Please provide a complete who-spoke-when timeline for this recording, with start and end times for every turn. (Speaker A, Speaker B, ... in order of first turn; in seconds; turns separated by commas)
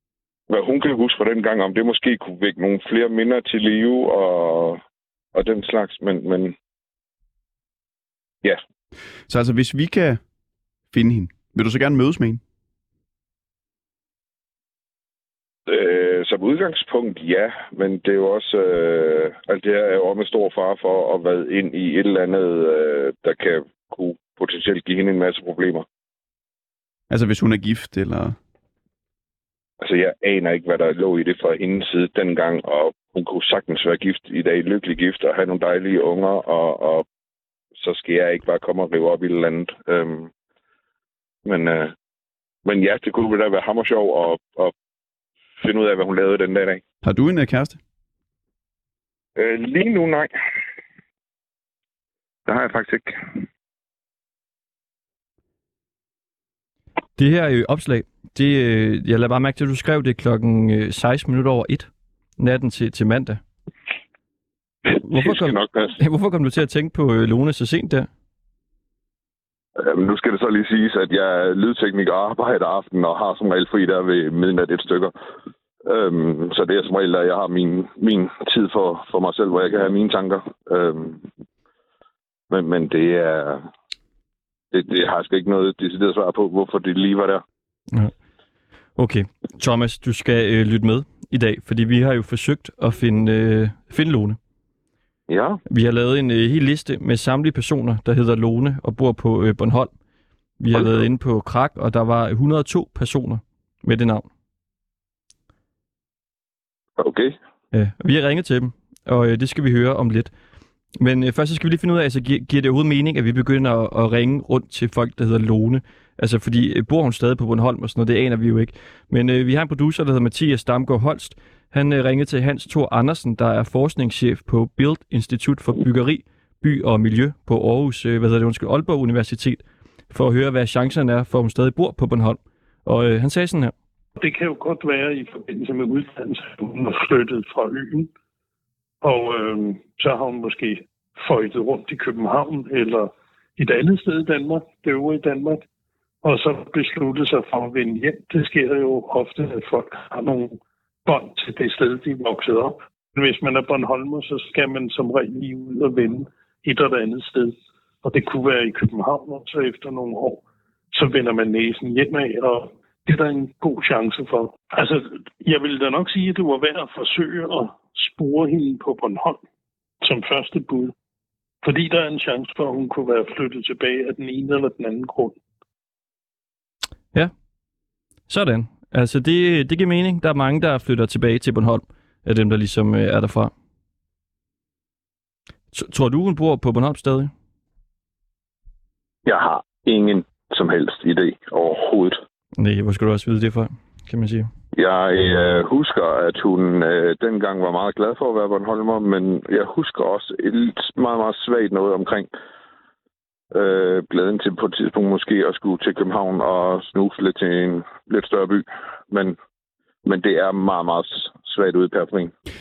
Speaker A: 0.5-4.8, Speaker A: 5.3-6.5, Speaker B: 9.3-10.2, Speaker B: 10.9-12.4, Speaker A: 15.7-25.9, Speaker B: 27.1-28.4, Speaker A: 29.8-37.1, Speaker A: 37.8-40.3, Speaker A: 41.5-41.9, Speaker A: 42.6-44.7, Speaker A: 45.6-46.8, Speaker B: 47.0-47.8, Speaker A: 49.4-50.3, Speaker A: 52.5-53.4, Speaker C: 57.2-63.4, Speaker A: 64.9-66.0, Speaker C: 65.0-68.1, Speaker A: 69.8-75.1, Speaker A: 75.8-81.3, Speaker A: 82.5-83.7, Speaker A: 84.7-87.4, Speaker C: 89.0-94.4, Speaker A: 95.3-95.6, Speaker C: 95.7-99.9, Speaker C: 100.6-104.3, Speaker A: 107.0-107.3, Speaker C: 107.7-110.3, Speaker C: 111.0-133.7, Speaker D: 134.2-138.1, Speaker D: 139.0-145.6, Speaker D: 146.2-169.4, Speaker D: 170.0-170.9, Speaker D: 171.6-175.4, Speaker C: 178.3-183.5, Speaker C: 185.7-187.3, Speaker A: 189.3-192.2, Speaker C: 192.6-194.5, Speaker A: 194.8-202.3, Speaker A: 203.5-209.4, Speaker A: 210.1-212.3